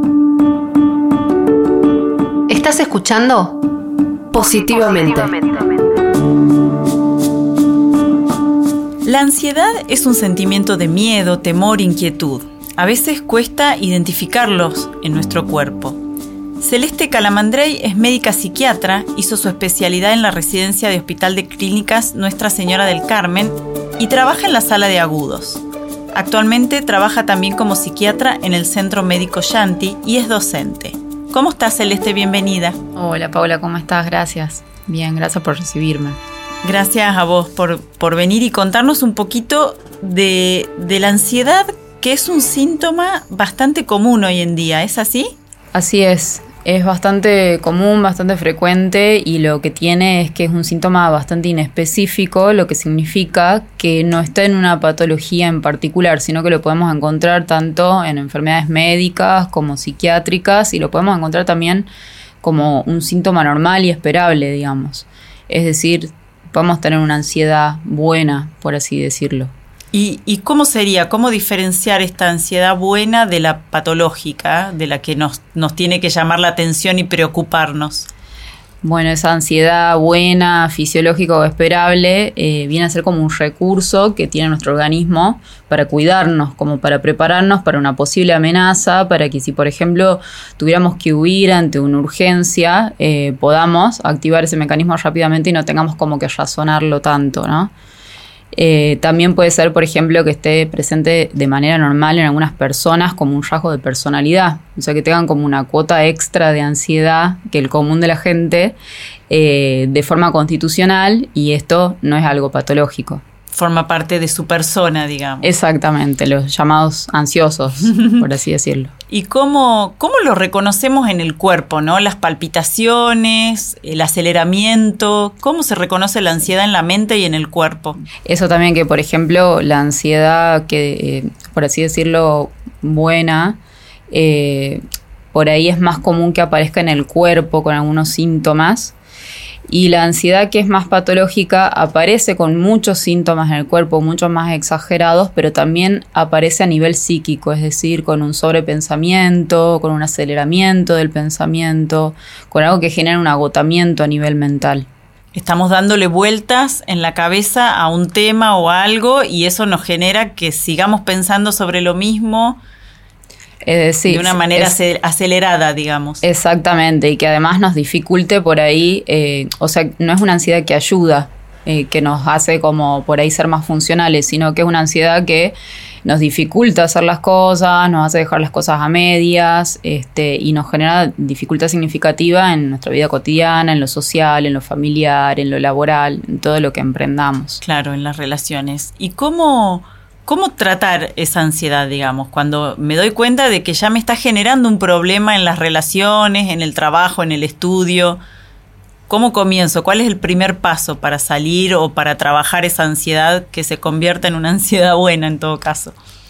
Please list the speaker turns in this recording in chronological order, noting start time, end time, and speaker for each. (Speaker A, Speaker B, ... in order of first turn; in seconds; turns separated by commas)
Speaker A: 2.5-3.6, Speaker A: 4.3-5.8, Speaker B: 9.1-16.0, Speaker B: 16.6-25.6, Speaker B: 26.1-32.8, Speaker C: 32.9-36.2, Speaker B: 36.6-45.4, Speaker C: 45.7-61.9, Speaker C: 62.4-69.5, Speaker B: 69.9-78.1, Speaker C: 78.8-97.7, Speaker C: 98.5-108.8, Speaker C: 109.3-113.2, Speaker B: 113.5-115.5, Speaker C: 115.4-118.9, Speaker B: 119.1-128.0, Speaker C: 128.2-133.6, Speaker C: 134.1-134.8, Speaker C: 135.3-138.9, Speaker C: 139.7-154.9, Speaker B: 155.3-162.6, Speaker C: 163.6-164.8, Speaker B: 164.1-166.2, Speaker C: 166.2-187.6, Speaker B: 187.6-198.2, Speaker B: 199.1-206.0